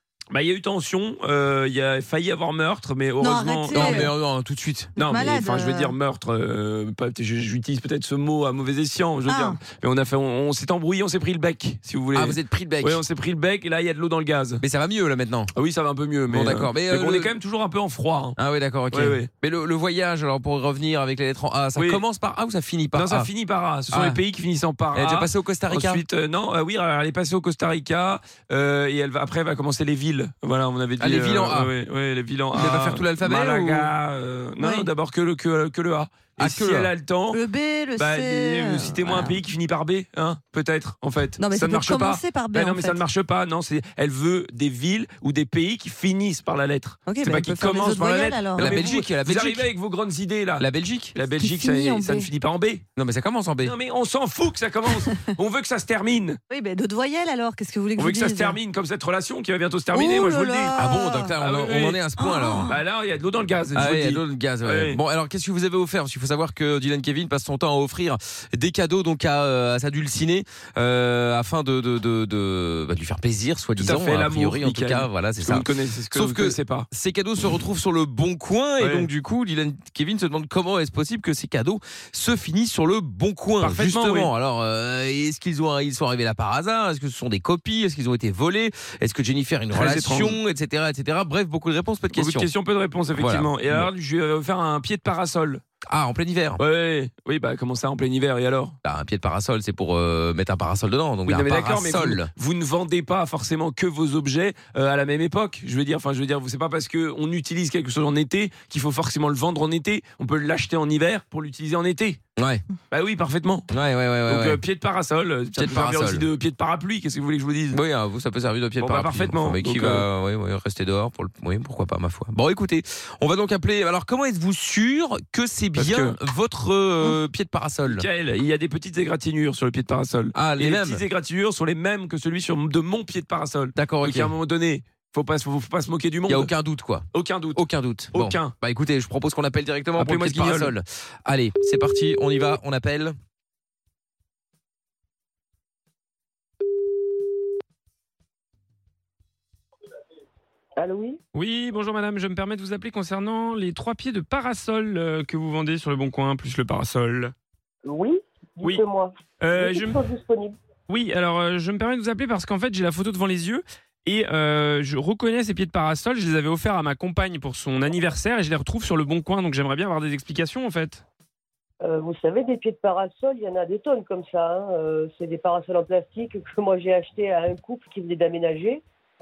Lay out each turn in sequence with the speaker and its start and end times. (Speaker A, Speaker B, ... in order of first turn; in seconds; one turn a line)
Speaker A: 0.3-4.0
Speaker B: 3.2-4.1
Speaker C: 3.7-4.9
Speaker A: 5.0-14.6
Speaker B: 5.0-6.0
Speaker B: 9.2-9.6
Speaker C: 12.1-13.0
Speaker C: 14.6-15.5
Speaker A: 15.5-18.4
Speaker C: 16.3-17.3
Speaker C: 18.4-23.3
Speaker A: 18.9-19.3
Speaker A: 21.8-22.0
Speaker A: 22.9-37.4
Speaker C: 23.9-24.2
Speaker C: 24.9-26.0
Speaker C: 31.0-31.7
Speaker C: 32.5-33.9
Speaker C: 34.6-34.9
Speaker C: 36.4-36.9
Speaker B: 37.3-39.4
Speaker A: 38.0-52.8
Speaker B: 41.4-43.0
Speaker B: 47.0-48.8
Speaker C: 48.5-49.7
Speaker C: 50.6-51.1
Speaker B: 51.3-52.3
Speaker C: 53.0-53.7
Speaker A: 53.6-56.4
Speaker B: 55.0-55.3
Speaker B: 56.5-58.6
Speaker A: 58.0-60.8
Speaker B: 59.9-61.4
Speaker C: 60.7-62.8
Speaker A: 61.4-62.0
Speaker B: 62.1-62.8
Speaker A: 62.7-65.0
Speaker C: 63.7-92.5
Speaker A: 73.8-76.9
Speaker A: 78.8-79.1
Speaker A: 83.8-84.3
Speaker A: 89.7-90.4
Speaker A: 92.1-95.6
Speaker C: 93.2-93.9
Speaker C: 95.9-96.6
Speaker A: 96.6-98.8
Speaker C: 98.8-102.3
Speaker A: 101.2-112.2
Speaker C: 112.4-112.6
Speaker A: 112.9-113.7
Speaker C: 113.7-114.6
Speaker A: 114.2-117.8
Speaker C: 115.5-116.2
Speaker C: 117.7-128.1
Speaker A: 118.8-120.0
Speaker A: 125.8-126.2
Speaker A: 127.8-136.5
Speaker C: 130.3-131.0
Speaker C: 133.7-134.3
Speaker C: 136.3-143.1
Speaker A: 137.1-138.5
Speaker A: 140.0-140.7
Speaker D: 150.8-151.2
Speaker E: 151.3-157.3
Speaker D: 157.8-160.6
Speaker E: 159.4-160.0
Speaker E: 160.9-171.0
Speaker D: 171.8-178.8